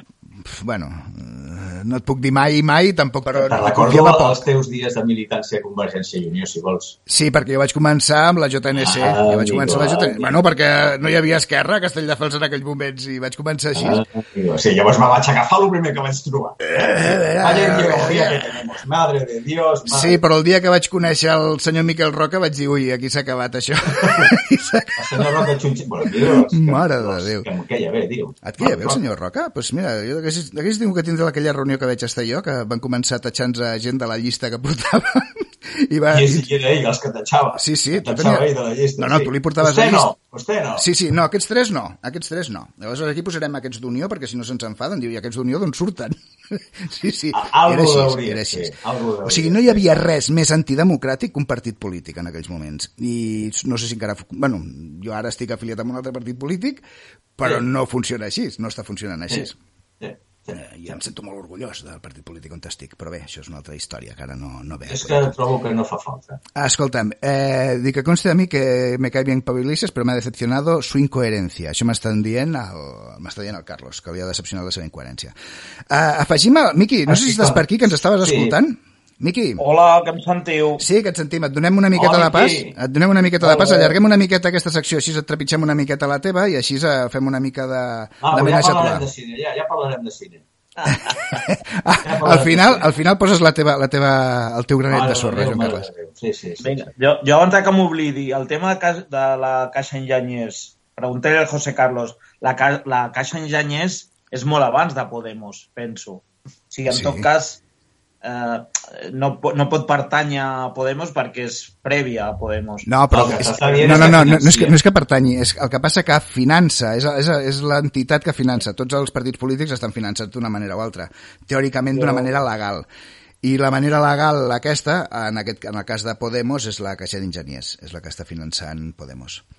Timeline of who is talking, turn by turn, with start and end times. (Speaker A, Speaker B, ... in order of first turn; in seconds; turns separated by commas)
Speaker A: 0.4-4.4, Speaker B: 3.3-7.0, Speaker A: 7.1-14.0, Speaker B: 8.8-10.3, Speaker B: 13.8-20.2, Speaker A: 16.7-18.5, Speaker A: 19.9-25.5, Speaker B: 24.0-24.3, Speaker B: 25.0-29.0, Speaker A: 26.1-27.5, Speaker A: 28.4-36.5, Speaker B: 36.1-40.9, Speaker A: 37.6-40.1, Speaker A: 40.8-56.8, Speaker B: 47.3-49.8, Speaker A: 57.4-59.5, Speaker B: 60.0-61.0, Speaker A: 60.6-65.3, Speaker B: 64.9-66.4, Speaker A: 66.6-75.3, Speaker A: 75.9-79.6, Speaker B: 77.1-77.7, Speaker B: 78.2-78.6, Speaker C: 79.6-80.8, Speaker A: 80.8-89.0, Speaker B: 81.9-82.8, Speaker B: 83.4-84.0, Speaker B: 88.2-90.9, Speaker A: 91.4-95.9, Speaker B: 92.0-92.9, Speaker B: 94.9-96.9, Speaker C: 96.6-107.6, Speaker A: 106.9-107.3, Speaker C: 108.2-112.9, Speaker A: 112.9-122.9, Speaker B: 113.1-114.8, Speaker C: 121.9-122.3, Speaker A: 123.4-129.4